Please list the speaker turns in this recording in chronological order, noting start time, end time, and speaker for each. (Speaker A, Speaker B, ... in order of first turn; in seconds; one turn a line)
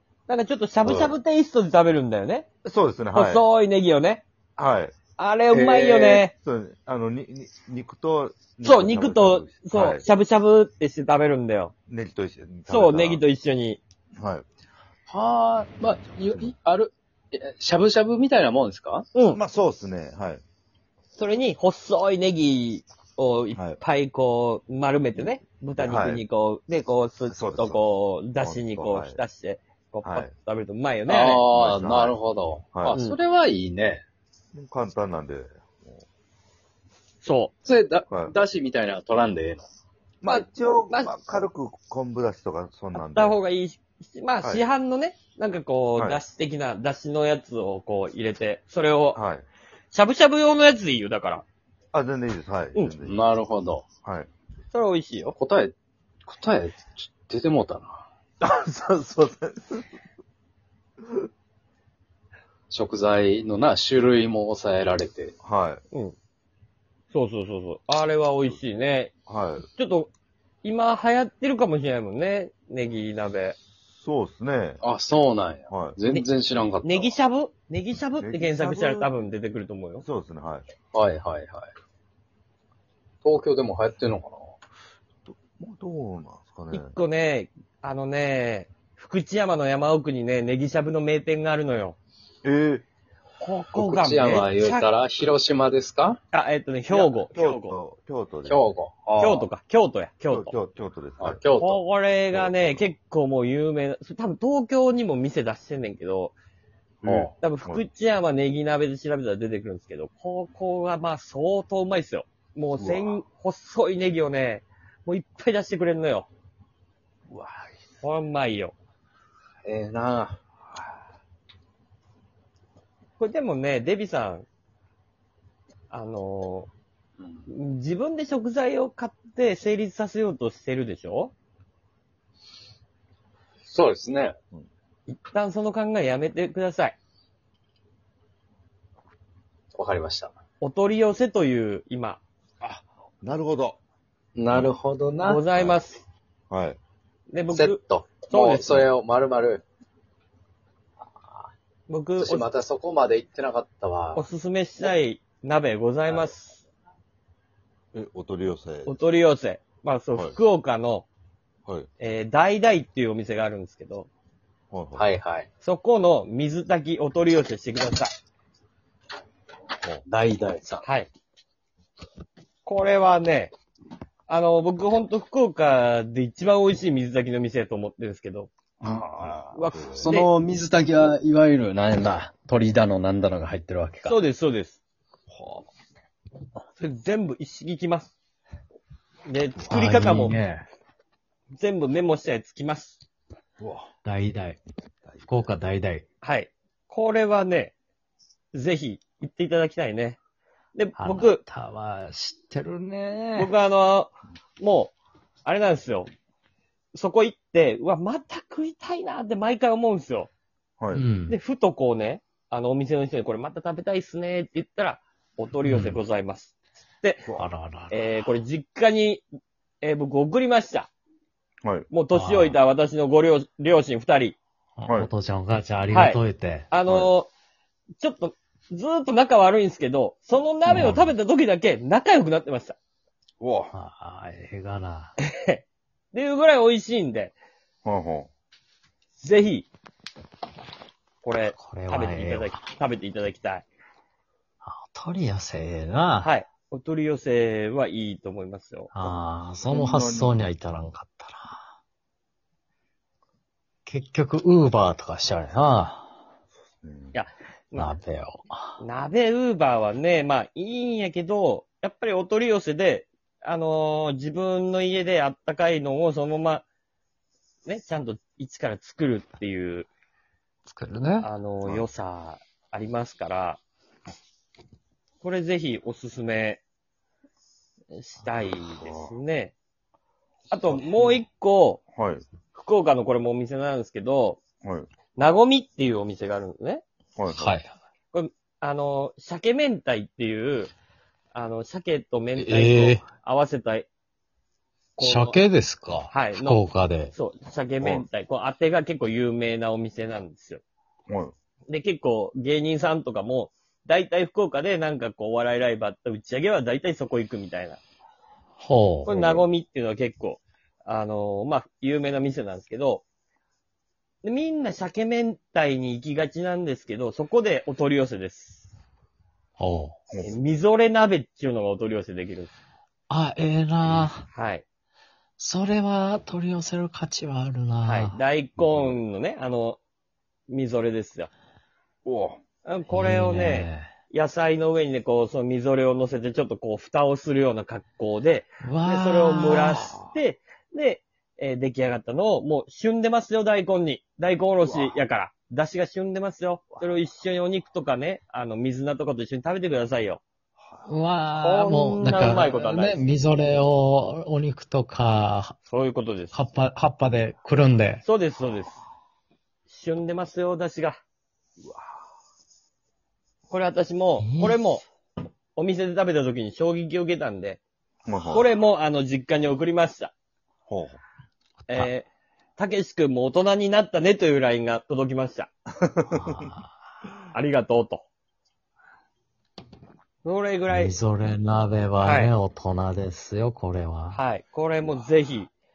Speaker A: 0.3-2.5
Speaker B: 0.8-1.1
Speaker C: 2.6-3.5
Speaker A: 3.1-4.2
Speaker C: 4.6-4.9
Speaker A: 5.2-6.3
Speaker C: 5.5-10.0
Speaker A: 8.6-11.7
Speaker C: 11.9-13.2
Speaker A: 12.7-13.8
Speaker C: 14.2-14.4
Speaker B: 15.1-19.0
Speaker C: 15.9-16.5
Speaker C: 19.3-20.4
Speaker A: 21.1-31.4
Speaker C: 25.8-26.2
Speaker C: 27.3-27.8
Speaker C: 28.4-29.2
Speaker C: 30.0-30.3
Speaker B: 31.1-34.0
Speaker C: 31.5-32.2
Speaker C: 32.7-33.0
Speaker A: 32.9-33.2
Speaker C: 34.5-36.0
Speaker A: 37.2-37.5
Speaker B: 37.6-39.7
Speaker C: 38.1-38.3
Speaker C: 40.2-43.4
Speaker A: 40.3-41.2
Speaker A: 42.9-49.2
Speaker C: 44.4-44.7
Speaker C: 46.0-46.2
Speaker C: 49.1-49.5
Speaker A: 49.9-51.5
Speaker C: 51.9-53.2
Speaker B: 53.0-53.9
Speaker C: 54.0-54.3
Speaker A: 54.7-55.3
Speaker B: 55.3-55.7
Speaker B: 56.2-58.0
Speaker C: 58.4-59.9
Speaker B: 62.7-65.3
Speaker C: 65.4-65.8
Speaker A: 67.1-69.1
Speaker C: 69.3-69.7
Speaker A: 69.7-70.1
Speaker A: 70.6-73.5
Speaker C: 73.9-74.8
Speaker B: 74.8-77.1
Speaker C: 75.7-76.0
Speaker A: 76.8-80.0
Speaker C: 78.2-79.1
Speaker C: 80.0-80.7
Speaker B: 80.9-81.7
Speaker B: 83.2-84.5
Speaker C: 85.3-87.0
Speaker A: 86.7-92.0
Speaker C: 92.4-92.8
Speaker A: 93.4-94.9
Speaker B: 93.7-96.2
Speaker A: 96.3-97.8
Speaker C: 96.9-98.7
Speaker B: 98.5-99.5
Speaker A: 99.2-100.5
Speaker C: 100.3-101.4
Speaker B: 101.2-101.8
Speaker A: 101.5-106.3
Speaker C: 102.3-102.9
Speaker C: 107.0-107.8
Speaker B: 107.0-107.3
Speaker A: 107.4-116.3
Speaker C: 112.8-113.2
Speaker C: 117.3-117.7
Speaker A: 118.0-118.7
Speaker B: 119.7-120.4
Speaker A: 123.2-124.5
Speaker A: 125.9-126.7
Speaker A: 127.5-131.3
Speaker B: 133.7-134.3
Speaker A: 135.1-137.0
Speaker B: 139.7-140.3
Speaker A: 140.6-142.2
Speaker C: 142.6-143.8
Speaker B: 144.3-145.4
Speaker A: 145.2-146.0
Speaker C: 145.5-145.8
Speaker C: 146.5-146.8
Speaker A: 147.3-147.8
Speaker B: 147.5-149.6
Speaker A: 148.3-148.9
Speaker A: 151.9-152.5
Speaker B: 152.2-154.2
Speaker A: 154.1-156.7
Speaker C: 157.9-159.0
Speaker A: 158.8-161.1
Speaker A: 162.0-164.1
Speaker C: 164.7-165.1
Speaker B: 164.9-165.5
Speaker A: 165.6-168.1
Speaker B: 170.1-170.8
Speaker A: 170.8-171.1
Speaker A: 172.6-173.5
Speaker A: 174.3-178.5
Speaker B: 178.8-184.2
Speaker C: 179.2-180.1
Speaker A: 179.5-180.3
Speaker A: 184.0-184.8
Speaker A: 186.8-188.1
Speaker A: 189.2-190.4
Speaker D: 189.6-190.6
Speaker A: 191.5-193.0
Speaker C: 193.6-193.9
Speaker D: 194.0-194.6
Speaker C: 195.0-195.5
Speaker D: 195.2-196.0
Speaker A: 196.2-197.7
Speaker A: 198.5-200.2
Speaker A: 200.7-201.4
Speaker D: 201.0-203.5
Speaker A: 203.3-204.9
Speaker A: 205.4-206.1
Speaker A: 206.9-210.3
Speaker C: 210.8-211.1
Speaker D: 210.9-211.4
Speaker A: 211.3-217.3
Speaker D: 215.7-216.0
Speaker D: 217.4-218.3
Speaker A: 217.9-219.2
Speaker A: 219.8-220.9
Speaker C: 221.6-221.9
Speaker A: 221.9-224.4
Speaker D: 222.1-222.6
Speaker D: 224.8-226.7
Speaker A: 225.9-226.2
Speaker A: 226.7-227.3
Speaker C: 226.8-227.1
Speaker A: 228.0-232.8
Speaker D: 230.7-231.1
Speaker C: 233.4-233.7
Speaker D: 233.7-235.1
Speaker A: 235.2-237.3
Speaker C: 237.8-238.3
Speaker A: 239.2-239.7
Speaker A: 241.2-243.7
Speaker D: 241.5-242.6
Speaker D: 244.6-246.3
Speaker A: 246.2-248.9
Speaker D: 248.9-251.6
Speaker C: 249.7-250.3
Speaker D: 253.8-256.1
Speaker C: 256.8-257.2
Speaker A: 257.1-257.9
Speaker D: 257.8-258.8
Speaker A: 258.8-266.6
Speaker A: 267.6-269.9
Speaker D: 270.6-271.3
Speaker A: 271.2-273.6
Speaker A: 275.2-276.6
Speaker A: 277.9-279.5
Speaker C: 278.6-279.1
Speaker A: 280.5-281.8
Speaker C: 281.9-282.2
Speaker A: 282.5-284.4
Speaker C: 284.6-284.9
Speaker A: 285.1-286.8
Speaker C: 287.1-287.6
Speaker D: 287.3-287.7
Speaker A: 288.1-290.7
Speaker A: 291.3-293.9
Speaker D: 292.4-293.0
Speaker A: 295.0-295.4
Speaker D: 295.0-297.1
Speaker A: 296.1-300.6
Speaker C: 301.1-301.3
Speaker A: 301.7-307.8
Speaker D: 308.6-309.1
Speaker A: 309.1-313.0
Speaker C: 309.1-309.4
Speaker A: 314.2-318.7
Speaker D: 319.6-319.9
Speaker A: 320.2-322.5
Speaker D: 323.1-324.2
Speaker A: 324.2-324.6
Speaker D: 325.4-328.2
Speaker A: 327.8-329.8
Speaker C: 328.6-329.0
Speaker A: 330.5-331.3
Speaker C: 332.0-332.4
Speaker A: 332.6-350.2
Speaker D: 332.9-333.9
Speaker D: 338.6-339.9
Speaker C: 344.6-345.0
Speaker C: 346.7-347.0
Speaker C: 350.6-350.9
Speaker D: 350.9-355.5
Speaker A: 351.4-353.0
Speaker A: 355.7-356.4
Speaker D: 356.3-358.0
Speaker A: 358.0-358.8
Speaker A: 359.7-361.0
Speaker A: 363.5-364.8
Speaker D: 364.2-364.8
Speaker A: 365.6-367.6
Speaker C: 368.1-368.5
Speaker A: 368.3-370.1
Speaker C: 370.7-371.0
Speaker D: 371.6-371.9
Speaker A: 371.7-375.5
Speaker C: 376.0-376.2
Speaker D: 376.1-376.7
Speaker A: 377.3-378.0
Speaker A: 380.2-381.0
Speaker D: 380.7-384.2
Speaker A: 382.0-382.3
Speaker A: 384.1-385.5